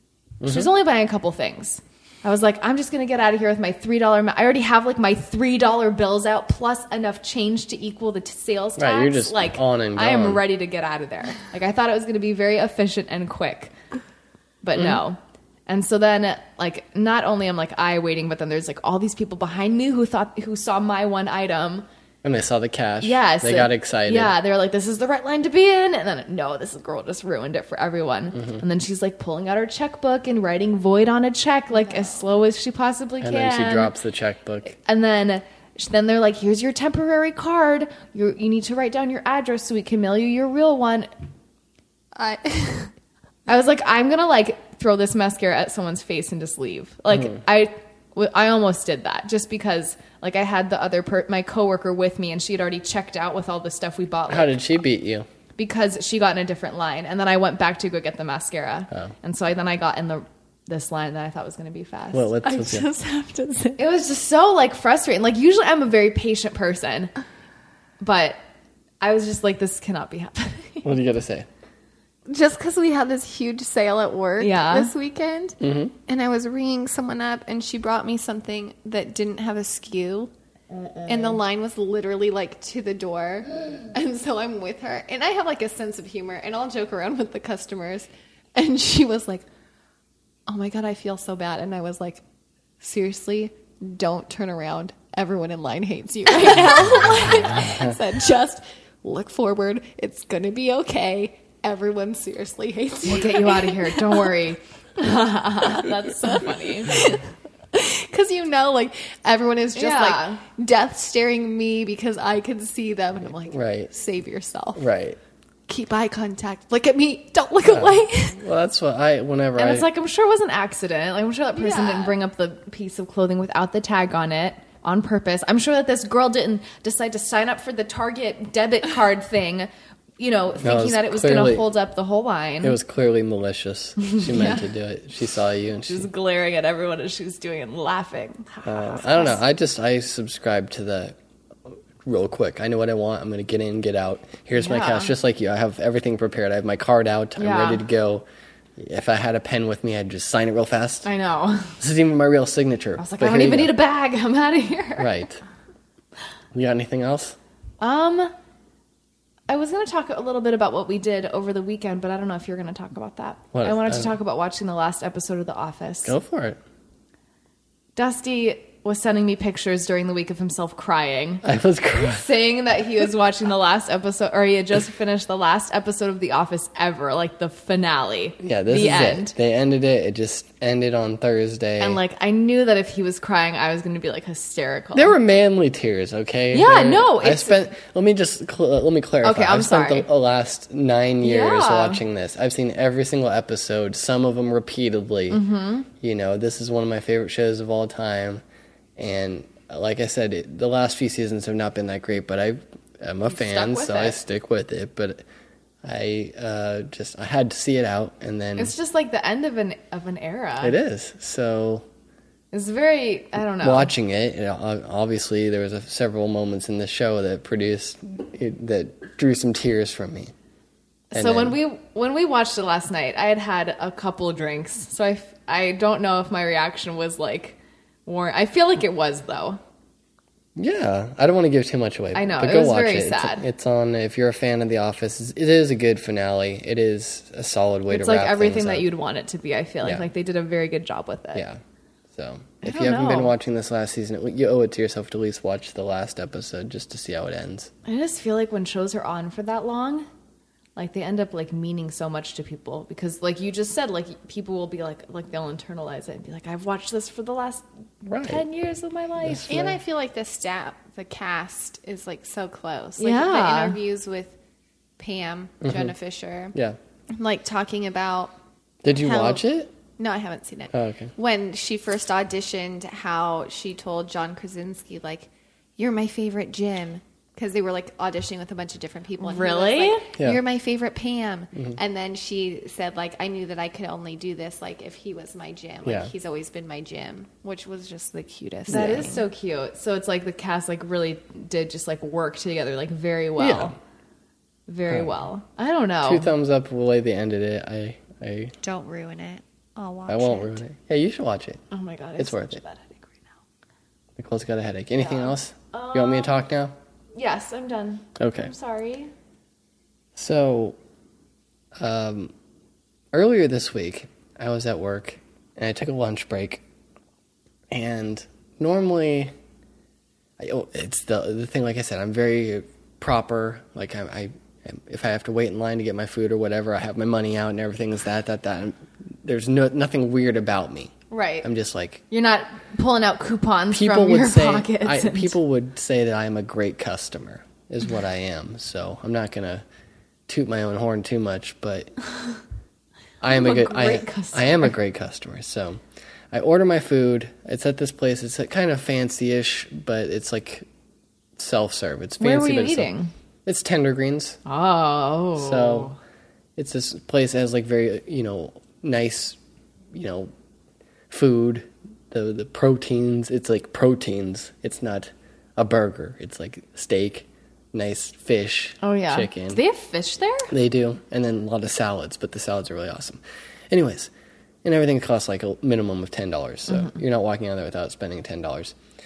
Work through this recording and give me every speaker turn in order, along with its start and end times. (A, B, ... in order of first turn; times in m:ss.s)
0:00.4-0:00.7 A
0:00.4-0:13.7 B
0:08.8-0:10.4 A
0:14.6-0:21.9 B
0:22.2-0:24.4 A
0:23.0-0:33.9 B
0:33.2-0:34.7 A
0:34.7-0:41.1 B
0:42.1-0:42.9 C
0:43.5-0:54.7 B
0:54.3-0:55.2 A
0:55.6-1:02.9 B
1:02.1-1:02.9 A
1:02.6-1:03.8 C
1:03.7-1:07.1 B
1:08.0-1:08.4 B
1:09.0-1:10.9 B
1:10.8-1:11.5 A
1:12.3-1:20.3 C
1:14.4-1:14.9 B
1:15.6-1:15.9 A
1:21.1-1:29.4 C
1:30.5-1:32.2 C
1:32.8-1:44.2 C
1:36.4-1:37.6 B
1:43.0-1:47.2 B
1:47.7-1:54.8 C
1:49.7-1:50.4 B
1:53.5-1:53.9 A
1:54.8-1:55.2 A
1:55.7-1:58.4 C
1:57.7-1:59.9 A
1:59.6-2:12.8 B
2:01.5-2:02.1 C
2:10.6-2:11.7 A
2:12.6-2:16.1 A
2:14.0-2:14.7 B
2:15.9-2:19.4 B
2:18.6-2:21.2 A
2:22.0-2:28.2 A
2:24.6-2:25.1 B
2:27.4-2:27.8 B
2:28.8-2:31.1 A
2:31.0-2:31.8 B
2:31.8-2:33.8 A
2:33.0-2:35.2 B
2:35.0-2:35.4 A
2:36.5-2:37.4 A
2:37.8-2:38.3 B
2:39.5-2:46.1 B
2:43.5-2:44.1 A
2:46.0-2:46.6 A
2:48.0-2:51.4 B
2:51.4-2:52.3 A
2:52.0-2:59.4 B
2:58.4-3:02.0 A
3:01.8-3:05.2 B
3:04.9-3:15.4 A
3:06.5-3:07.7 B
3:09.2-3:10.1 B
3:11.2-3:12.0 B
3:15.3-3:15.9 B
3:16.0-3:18.4 A
3:19.0-3:25.2 A
3:23.3-3:24.2 B
3:25.8-3:28.7 A
3:28.6-3:30.8 B
3:30.6-3:31.8 A
3:32.5-3:33.9 B
3:33.6-3:40.3 A
3:41.1-3:41.6 A
3:41.1-3:49.6 B
3:50.6-3:58.9 A
3:52.1-3:53.4 B
3:57.9-4:01.4 B
4:01.4-4:01.6 A
4:02.1-4:07.7 A
4:02.6-4:03.4 B
4:07.8-4:10.0 B
4:10.8-4:19.5 B
4:18.0-4:18.4 A
4:19.2-4:19.8 A
4:19.5-4:24.4 C
4:23.0-4:23.8 B
4:25.0-4:26.6 C
4:25.6-4:25.9 A
4:27.1-4:28.3 C
4:28.8-4:29.7 A
4:28.9-4:29.4 C
4:30.0-4:49.2 C
4:30.7-4:31.1 A
4:39.2-4:40.0 B
4:45.8-4:46.1 A
4:48.7-4:53.7 B
4:48.7-4:49.1 A
4:53.4-4:53.7 A
4:54.7-4:56.3 B
4:56.0-4:58.5 A
4:58.6-5:00.6 C
5:00.1-5:01.6 A
5:01.7-5:03.2 B
5:02.2-5:02.6 A
5:04.2-5:06.7 A
5:05.0-5:06.4 B
5:07.1-5:09.1 B
5:08.2-5:08.5 A
5:10.2-5:10.8 A
5:11.8-5:12.3 A
5:13.1-5:16.6 A
5:17.7-5:19.3 A
5:20.4-5:32.0 A
5:31.1-5:31.4 B
5:32.1-5:35.4 B
5:33.7-5:39.6 A
5:40.3-5:41.9 A
5:43.2-5:50.7 A
5:43.2-5:44.7 B
5:51.4-5:52.9 A
5:52.2-5:53.1 B
5:53.4-5:54.4 A
5:54.4-5:56.0 B
5:55.4-5:55.9 A
5:56.6-5:59.4 A
5:59.9-6:00.3 A
6:01.1-6:09.6 A
6:08.8-6:10.5 B
6:10.5-6:14.1 A
6:14.6-6:18.7 A